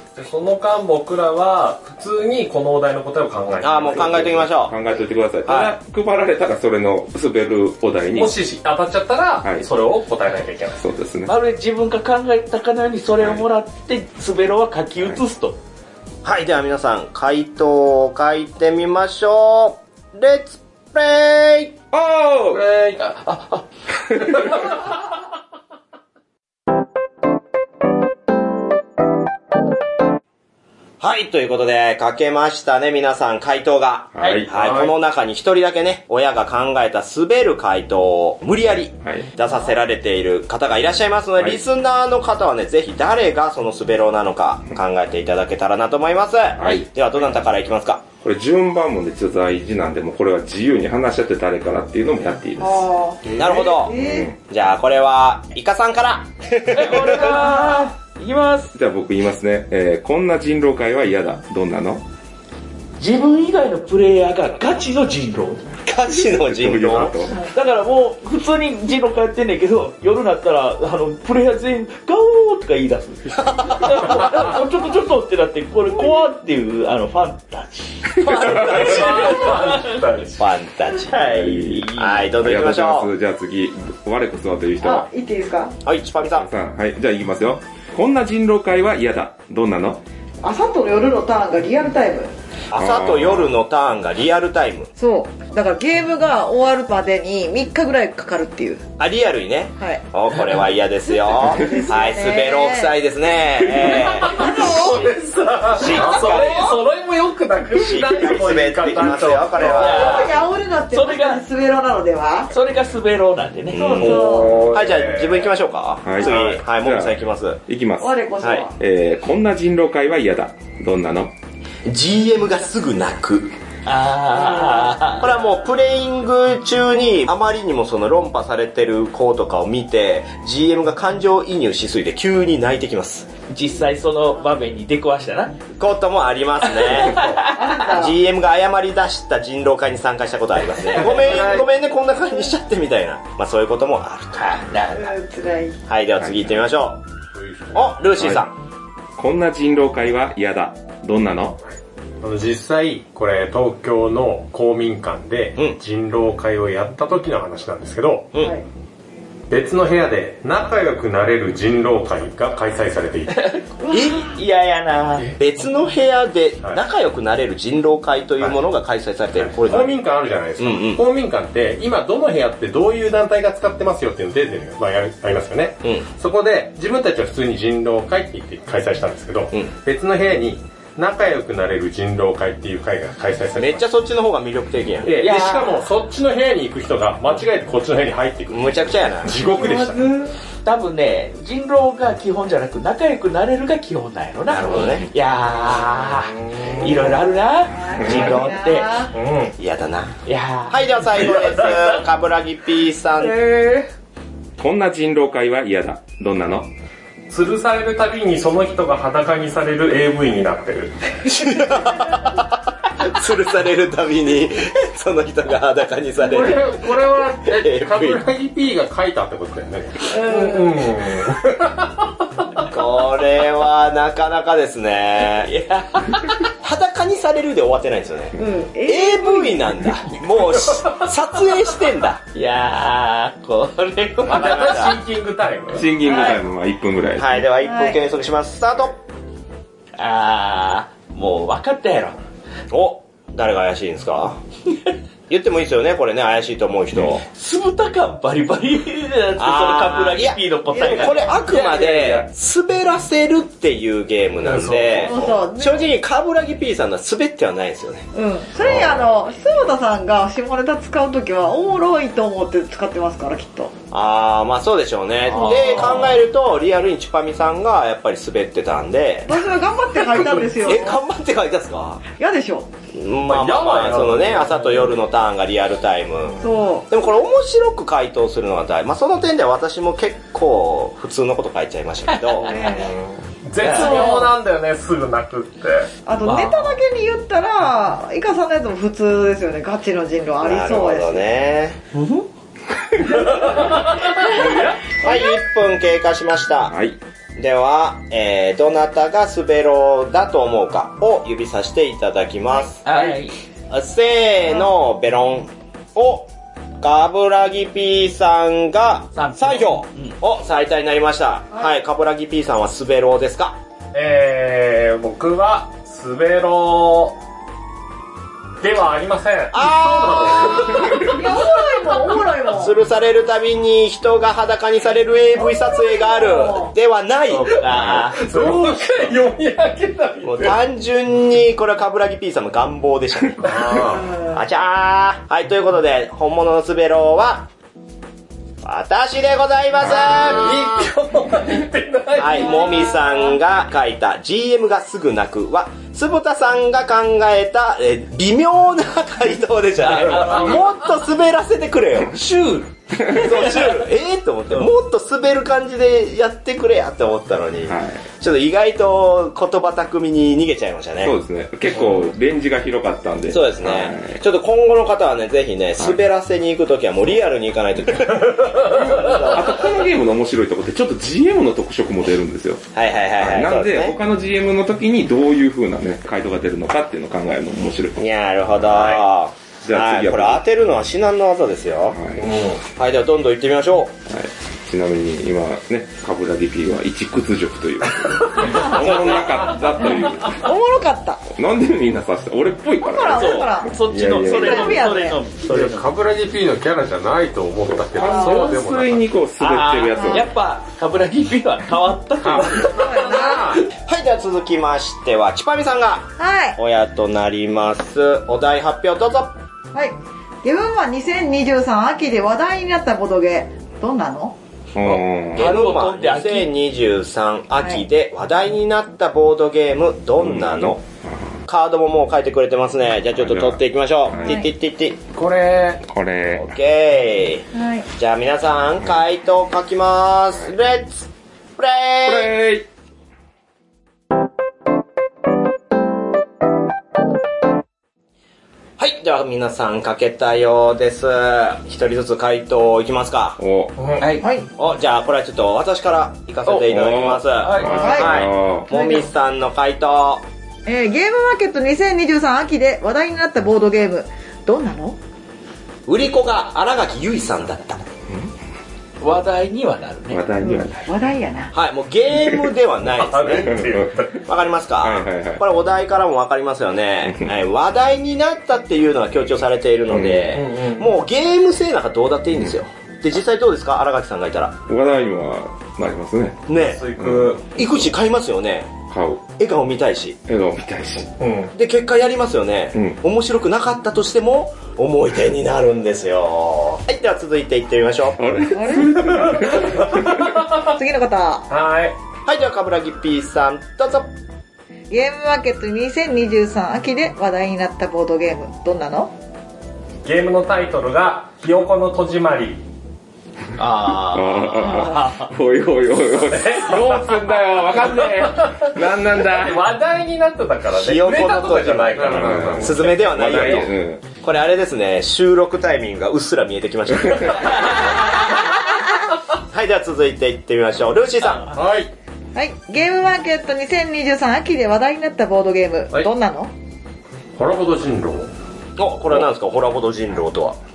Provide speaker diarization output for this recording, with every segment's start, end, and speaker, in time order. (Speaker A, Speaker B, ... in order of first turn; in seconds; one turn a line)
Speaker A: 0.1-4.3
Speaker B: 3.6-4.7
Speaker C: 4.0-8.4
Speaker B: 5.5-5.7
Speaker A: 8.1-10.8
Speaker C: 9.4-9.7
Speaker C: 10.8-11.3
Speaker D: 11.3-15.6
Speaker C: 13.2-13.4
Speaker B: 16.2-21.7
Speaker C: 21.9-22.6
Speaker A: 22.5-23.4
Speaker C: 24.0-24.5
Speaker A: 24.1-24.8
Speaker B: 31.0-48.0
Speaker C: 34.1-34.5
Speaker A: 34.5-34.9
Speaker C: 39.0-39.3
Speaker C: 46.6-46.9
Speaker C: 48.2-52.9
Speaker E: 52.6-54.3
Speaker A: 53.2-53.8
Speaker B: 53.4-54.0
Speaker C: 53.9-54.4
Speaker B: 54.5-57.5
Speaker D: 56.7-58.7
Speaker C: 58.7-62.0
Speaker D: 63.0-65.7
Speaker B: 65.8-67.3
Speaker C: 66.1-67.5
Speaker D: 67.4-80.0
Speaker B: 73.3-74.3
Speaker A: 78.2-80.4
Speaker B: 80.4-83.1
Speaker D: 81.1-82.3
Speaker C: 81.3-85.1
Speaker E: 84.8-85.8
Speaker B: 85.8-86.5
Speaker C: 86.2-90.0
Speaker E: 90.4-92.3
Speaker B: 92.7-94.9
Speaker C: 92.7-93.5
Speaker E: 95.0-98.8
Speaker B: 99.0-104.5
Speaker E: 101.2-102.9
Speaker C: 101.5-101.8
Speaker A: 103.9-110.0
Speaker E: 104.2-105.2
Speaker D: 104.7-106.0
Speaker B: 105.7-106.8
Speaker E: 106.0-106.6
Speaker B: 107.7-110.3
Speaker E: 109.6-112.5
Speaker D: 109.6-111.4
Speaker D: 112.5-114.2
Speaker B: 113.7-117.6
Speaker E: 113.7-114.7
Speaker A: 114.0-115.5
Speaker C: 116.0-118.2
Speaker E: 118.0-118.7
Speaker B: 118.4-118.7
Speaker C: 118.8-121.3
Speaker B: 121.8-123.5
Speaker D: 123.8-125.3
Speaker B: 125.2-133.3
Speaker D: 133.5-135.6
Speaker B: 135.7-144.5
Speaker D: 136.6-137.7
Speaker A: 137.1-137.4
Speaker E: 137.4-138.1
Speaker A: 140.9-141.7
Speaker D: 144.3-145.2
Speaker E: 144.9-145.8
Speaker B: 145.9-147.0
Speaker C: 146.2-146.7
Speaker A: 147.3-147.9
Speaker B: 147.7-148.5
Speaker C: 148.2-148.4
Speaker C: 149.2-151.6
Speaker A: 152.2-158.3
Speaker E: 158.4-158.6
Speaker A: 159.5-163.5
Speaker D: 163.3-165.3
Speaker E: 163.8-164.2
Speaker B: 163.9-164.2
Speaker B: 165.4-170.0
Speaker A: 169.4-183.9
Speaker B: 170.6-171.0
Speaker B: 183.6-185.2
Speaker A: 185.0-190.2
Speaker D: 185.1-185.8
Speaker B: 188.5-189.4
Speaker D: 189.6-190.1
Speaker D: 190.6-199.0
Speaker B: 194.5-195.1
Speaker A: 196.1-197.1
Speaker E: 197.7-199.1
Speaker C: 197.9-198.3
Speaker A: 199.1-199.6
Speaker B: 199.6-200.2
Speaker D: 200.2-201.9
Speaker B: 200.7-203.3
Speaker D: 203.3-203.9
Speaker C: 204.6-206.7
Speaker A: 207.3-212.1
Speaker B: 211.3-216.8
Speaker A: 216.2-222.7
Speaker B: 217.4-218.2
Speaker E: 220.1-220.8
Speaker B: 222.7-225.5
Speaker D: 225.4-226.4
Speaker B: 226.6-232.2
Speaker E: 228.3-229.9
Speaker A: 230.7-231.0
Speaker D: 232.3-235.0
Speaker A: 234.2-235.9
Speaker B: 234.3-234.9
Speaker C: 235.7-237.4
Speaker E: 236.0-236.4
Speaker B: 237.2-239.0
Speaker E: 237.6-238.0
Speaker D: 239.9-242.2
Speaker B: 242.7-244.4
Speaker B: 245.3-247.2
Speaker D: 247.3-252.1
Speaker B: 249.4-258.1
Speaker E: 250.7-251.5
Speaker A: 254.4-255.3
Speaker E: 255.1-255.9
Speaker E: 258.1-263.7
Speaker A: 258.6-259.0
Speaker B: 263.9-269.5
Speaker A: 265.3-266.2
Speaker D: 265.5-266.0
Speaker E: 269.3-271.0
Speaker A: 270.0-270.7
Speaker B: 270.2-272.0
Speaker E: 272.1-272.7
Speaker B: 272.9-282.5
Speaker A: 273.2-274.9
Speaker E: 276.4-276.9
Speaker D: 282.1-282.7
Speaker A: 282.4-285.9
Speaker E: 282.4-283.0
Speaker D: 283.6-284.0
Speaker E: 283.6-284.4
Speaker E: 286.1-291.2
Speaker D: 286.2-286.8
Speaker B: 290.4-291.8
Speaker D: 291.9-292.3
Speaker A: 293.2-294.6
Speaker D: 293.2-294.8
Speaker B: 295.0-296.8
Speaker C: 296.7-297.0
Speaker B: 297.4-303.2
Speaker D: 302.8-303.3
Speaker B: 303.7-306.3
Speaker B: 306.8-313.6
Speaker D: 309.1-310.1
Speaker A: 313.9-317.2
Speaker A: 318.6-321.1
Speaker B: 319.5-321.2
Speaker E: 320.9-322.7
Speaker B: 322.5-328.2
Speaker E: 325.4-326.7
Speaker D: 327.3-328.6
Speaker A: 327.8-330.6
Speaker C: 328.0-328.6
Speaker B: 330.2-337.5
Speaker A: 333.4-334.2
Speaker E: 334.1-334.4
Speaker B: 338.6-340.7
Speaker A: 339.9-342.8
Speaker B: 342.2-352.2
Speaker E: 342.3-343.4
Speaker D: 349.8-350.8
Speaker A: 350.1-350.6
Speaker D: 352.1-353.7
Speaker B: 353.1-361.1
Speaker C: 357.7-358.0
Speaker C: 361.0-364.2
Speaker B: 363.3-369.6
Speaker A: 368.3-368.6
Speaker C: 368.7-372.6
Speaker B: 372.7-374.0
Speaker C: 373.2-379.0
Speaker B: 378.0-382.0
Speaker C: 379.6-380.4
Speaker C: 381.9-382.3
Speaker A: 382.2-382.6
Speaker B: 382.8-384.0
Speaker C: 384.1-390.5
Speaker A: 388.3-389.3
Speaker E: 390.3-391.2
Speaker C: 391.3-394.9
Speaker E: 392.8-395.2
Speaker D: 393.1-395.9
Speaker A: 395.4-399.0
Speaker C: 397.9-400.3
Speaker E: 398.0-398.6
Speaker D: 399.4-402.8
Speaker E: 399.9-400.2
Speaker A: 402.2-403.6
Speaker E: 402.7-403.6
Speaker B: 403.9-409.3
Speaker E: 406.2-406.6
Speaker E: 409.7-414.4
Speaker C: 414.7-415.6
Speaker D: 415.3-416.5
Speaker B: 415.3-420.8
Speaker C: 420.2-421.3
Speaker B: 421.4-425.0
Speaker C: 423.1-424.4
Speaker E: 424.2-424.5
Speaker A: 425.1-425.8
Speaker C: 425.8-426.5
Speaker B: 426.3-432.3
Speaker E: 427.5-427.9
Speaker C: 432.0-432.7
Speaker B: 438.8-443.4
Speaker C: 443.4-443.7
Speaker A: 443.8-444.1
Speaker D: 444.0-444.3
Speaker E: 444.2-444.5
Speaker B: 444.6-450.2
Speaker D: 446.5-448.1
Speaker C: 446.7-448.7
Speaker E: 447.8-449.1
Speaker E: 450.6-455.0
Speaker B: 455.9-457.8
Speaker D: 459.0-460.2
Speaker C: 460.1-461.0
Speaker E: 460.4-461.5
Speaker B: 461.5-463.7
Speaker A: 462.9-464.2
Speaker C: 463.3-464.1
Speaker B: 464.2-474.6
Speaker C: 464.8-465.4
Speaker C: 467.0-467.3
Speaker C: 469.9-470.3
Speaker A: 470.3-470.9
Speaker C: 474.7-476.4
Speaker B: 476.5-478.7
Speaker A: 476.5-477.4
Speaker C: 477.0-477.9
Speaker C: 478.9-479.2
Speaker B: 479.4-480.2
Speaker C: 480.3-481.1
Speaker A: 481.2-481.5
Speaker B: 481.5-488.2
Speaker C: 482.7-483.0
Speaker C: 488.1-490.3
Speaker E: 488.5-491.5
Speaker A: 488.6-490.7
Speaker A: 491.5-492.0
Speaker B: 492.2-494.1
Speaker E: 494.9-499.1
Speaker A: 500.0-502.6
Speaker B: 503.6-504.7
Speaker C: 504.0-509.7
Speaker D: 504.7-505.3
Speaker A: 506.2-507.2
Speaker A: 507.9-513.5
Speaker B: 510.7-518.3
Speaker C: 512.0-514.0
Speaker C: 517.1-517.5
Speaker B: 519.3-521.5
Speaker A: 521.4-521.9
Speaker E: 522.3-526.5
Speaker A: 527.3-528.3
Speaker B: 528.8-530.6